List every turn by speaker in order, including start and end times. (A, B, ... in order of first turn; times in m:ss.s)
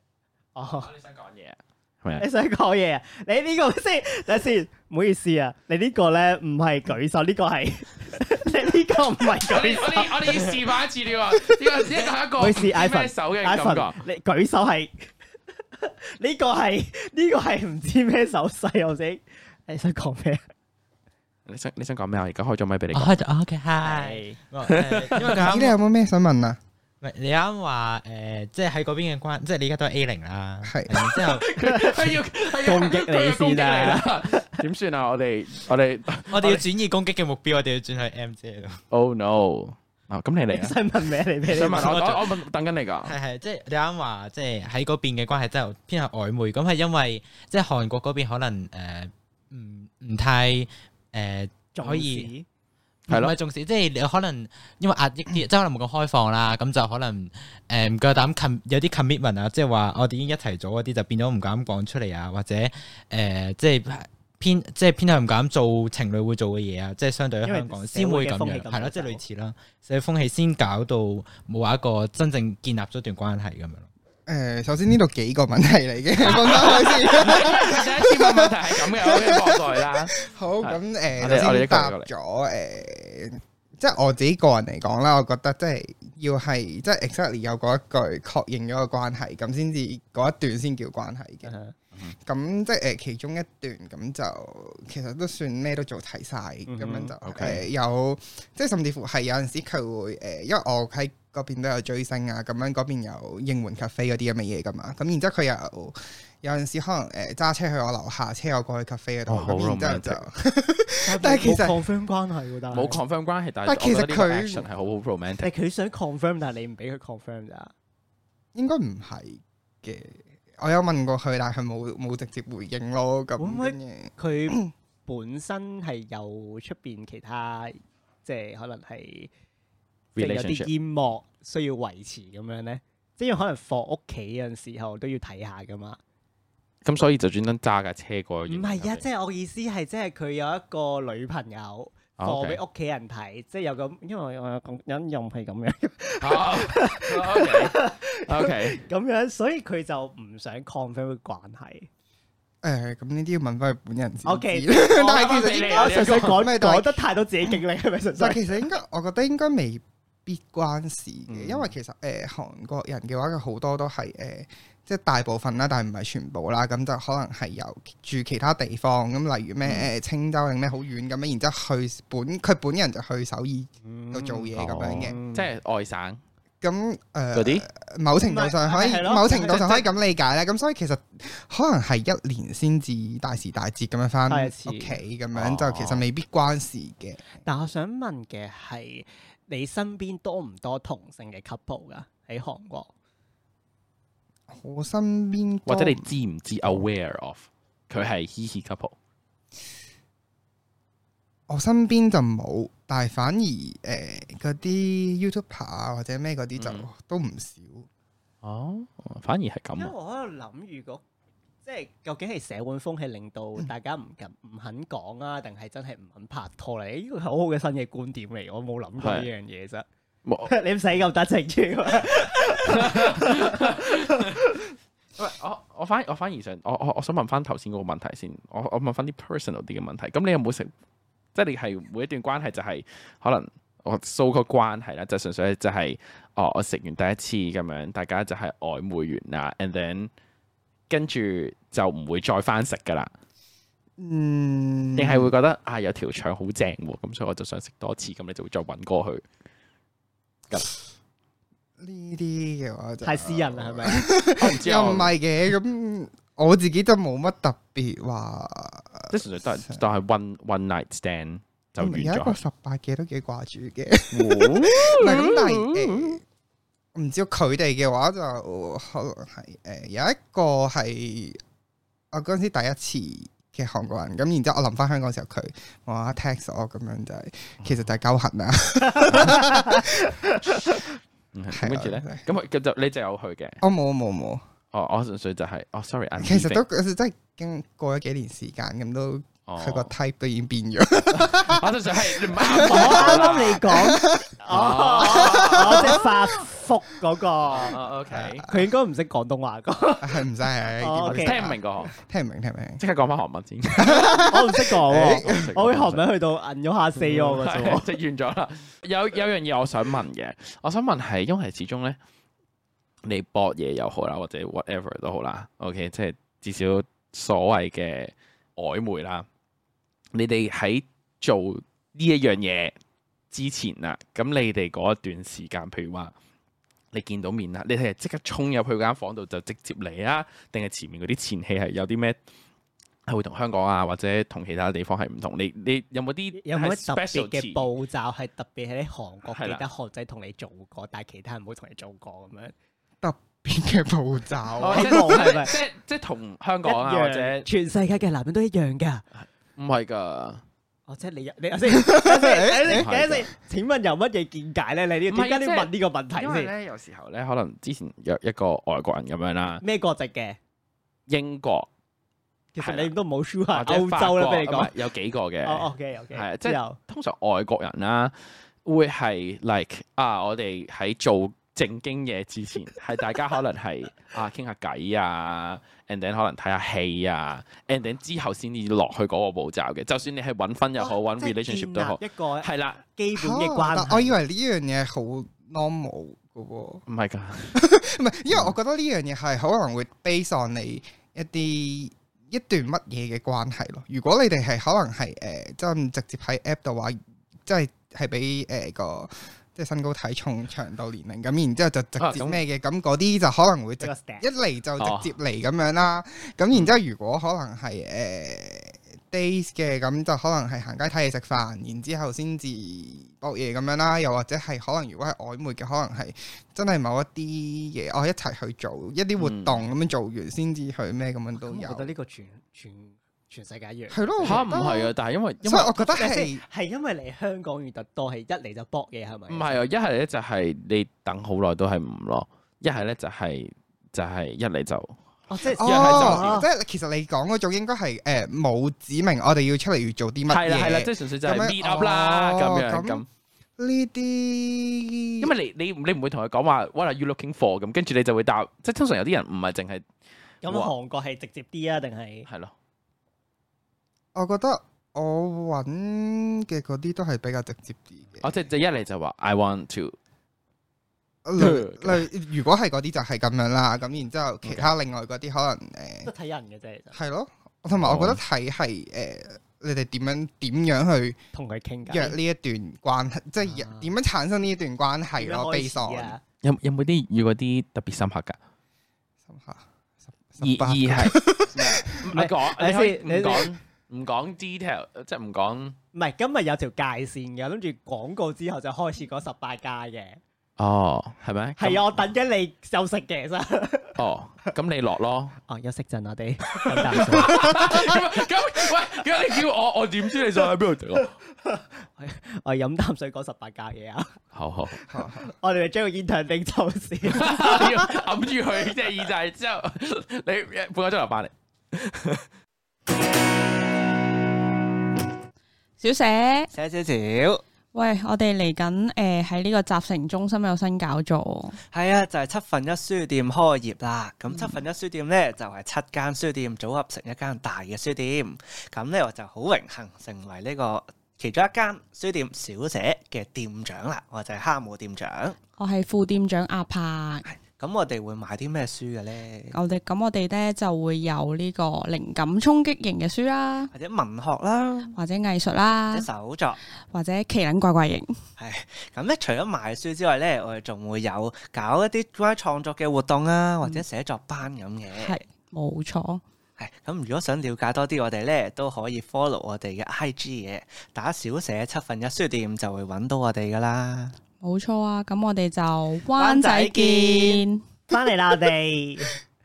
0:00.6-0:00.9 A
0:00.8-0:02.3 B
0:02.2-0:10.6 A
0:09.4-0:14.0 B
0:12.4-0:15.1 A
0:15.7-0:20.4 A
0:21.5-0:23.2 B
0:22.9-0:25.8 C
0:23.8-0:24.4 A
0:24.7-0:25.4 B
0:25.3-0:26.6 D
0:27.0-0:31.5 C
0:30.7-0:31.0 D
0:31.0-0:36.7 B
0:31.6-0:34.6 A
0:36.3-0:38.8 C
0:38.9-0:40.8 B
0:40.5-0:42.2 A
0:41.5-0:43.2 B
0:43.0-0:52.3 C
0:51.8-0:52.5 A
0:53.1-1:13.9 C
0:53.1-0:53.4 B
1:07.4-1:09.2 A
1:14.3-1:31.5 D
1:16.2-1:22.1 B
1:31.5-1:31.7 A
1:32.2-1:51.8 D
1:36.7-1:37.1 A
1:37.2-1:37.6 B
1:49.3-1:50.2 B
1:51.0-1:53.0 A
1:52.7-1:55.5 B
1:53.7-1:54.7 D
1:55.4-1:57.7 A
1:58.6-2:04.7 D
2:03.4-2:09.3 A
2:10.2-2:10.7 B
2:10.2-2:16.0 A
2:16.8-2:19.0 B
2:18.5-2:31.9 A
2:22.2-2:22.6 B
2:26.2-2:28.8 B
2:32.6-2:37.0 D
2:34.2-2:38.6 A
2:35.1-2:36.5 B
2:38.2-2:55.2 D
2:41.3-2:41.7 A
2:53.8-2:55.5 A
2:54.6-2:56.2 B
2:56.6-3:07.4 D
2:57.3-2:57.6 B
2:58.2-2:59.9 A
3:04.3-3:05.0 A
3:05.3-3:06.0 B
3:07.4-3:12.9 A
3:14.5-3:16.1 D
3:15.7-3:19.0 B
3:21.5-3:27.9 D
3:26.6-3:26.9 B
3:28.4-3:29.9 B
3:29.8-3:31.0 A
3:31.6-3:39.8 A
3:39.0-3:39.3 B
3:40.2-3:40.5 B
3:40.5-3:44.6 A
3:42.5-3:44.4 B
3:45.2-3:50.7 B
3:51.4-4:00.1 B
4:00.9-4:03.1 B
4:04.0-4:05.3 D
4:05.0-4:09.2 B
4:11.8-4:19.8 D
4:13.0-4:14.1 A
4:14.4-4:15.1 B
4:19.1-4:22.4 B
4:21.8-4:26.2 D
4:24.1-4:26.2 B
4:27.0-4:31.4 D
4:32.1-4:40.1 D
4:38.9-4:39.9 A
4:39.1-4:39.4 B
4:41.3-4:43.6 B
4:41.5-4:42.3 D
4:43.6-4:44.4 D
4:44.7-4:46.6 B
4:46.2-4:54.3 D
4:49.5-4:49.9 B
4:51.1-4:53.6 B
4:52.5-4:57.8 A
4:54.5-4:56.1 B
4:55.1-4:56.0 D
4:57.5-4:58.5 B
4:58.1-4:58.4 D
4:58.4-5:00.2 A
5:00.0-5:02.8 D
5:00.8-5:01.4 A
5:01.0-5:01.9 B
5:02.8-5:04.5 B
5:03.8-5:05.5 D
5:04.3-5:07.9 A
5:05.1-5:06.0 B
5:07.0-5:12.0 B
5:13.0-5:19.3 B
5:20.1-5:22.7 B
5:23.3-5:26.1 B
5:26.9-5:32.2 B
5:33.1-5:37.7 B
5:36.4-5:42.5 A
5:39.3-5:39.6 B
5:43.0-5:45.2 D
5:44.6-5:47.5 B
5:44.6-5:45.6 A
5:46.6-5:49.0 A
5:49.6-5:50.4 B
5:50.9-5:56.5 A
5:51.8-5:52.8 D
5:52.7-5:53.3 B
5:55.1-5:59.6 B
5:59.6-6:00.4 A
6:01.1-6:01.7 B
6:02.6-6:04.7 A
6:02.6-6:02.9 B
6:03.5-6:08.1 B
6:05.4-6:06.8 A
6:08.6-6:22.8 B
6:20.8-6:24.2 A
6:23.2-6:26.8 D
6:26.9-6:27.6 B
6:27.6-7:01.9 D
6:28.3-6:28.6 B
6:42.0-6:42.4 B
6:43.8-6:44.3 A
6:44.8-6:45.1 B
6:59.2-6:59.6 B
7:01.4-7:04.6 A
7:03.9-7:06.4 D
7:04.2-7:05.9 B
7:06.0-7:09.6 A
7:09.3-7:15.0 B
7:15.3-7:16.5 A
7:15.6-7:16.4 B
7:15.6-7:23.0 D
7:20.3-7:23.0 B
7:23.6-7:25.3 D
7:25.2-7:29.9 B
7:30.4-7:32.3 A
7:30.5-7:30.7 B
7:32.3-7:32.5 B
7:34.2-7:38.3 D
7:38.2-7:40.0 B
7:41.2-7:46.1 D
7:41.4-7:42.1 B
7:44.4-7:44.7 B
7:46.1-7:47.0 A
7:46.9-7:51.2 D
7:47.8-7:48.2 B
7:51.3-7:52.2 A
7:51.9-7:56.2 D
7:53.4-7:53.9 A
7:55.2-7:56.2 A
7:56.4-7:58.4 B
7:59.3-7:59.6 D
8:00.3-8:02.1 D
8:00.4-8:05.8 B
8:02.1-8:03.5 A
8:05.9-8:10.2 A
8:10.6-8:12.0 B
8:11.6-8:14.0 A
8:14.0-8:15.4 B
8:15.5-8:18.0 A
8:16.5-8:21.1 B
8:21.4-8:24.2 A
8:24.3-8:24.8 B
8:24.8-8:28.0 A
8:24.9-8:25.3 D
8:27.1-8:32.3 B
8:35.8-8:36.5 E
8:36.5-8:37.4 F
8:37.7-8:41.6 E
8:41.7-8:55.4 F
8:55.6-8:57.2 E
8:57.3-8:59.6 F
8:59.5-9:03.7 E
9:03.7-9:04.9 F
9:04.9-9:06.1 E
9:05.9-9:06.6 F
9:06.8-9:08.1 E
9:08.4-9:15.2 F
9:14.9-9:16.2 E
9:16.6-9:24.2 F
9:24.4-9:27.6 E
9:26.2-9:27.3 A
9:27.9-9:29.2 A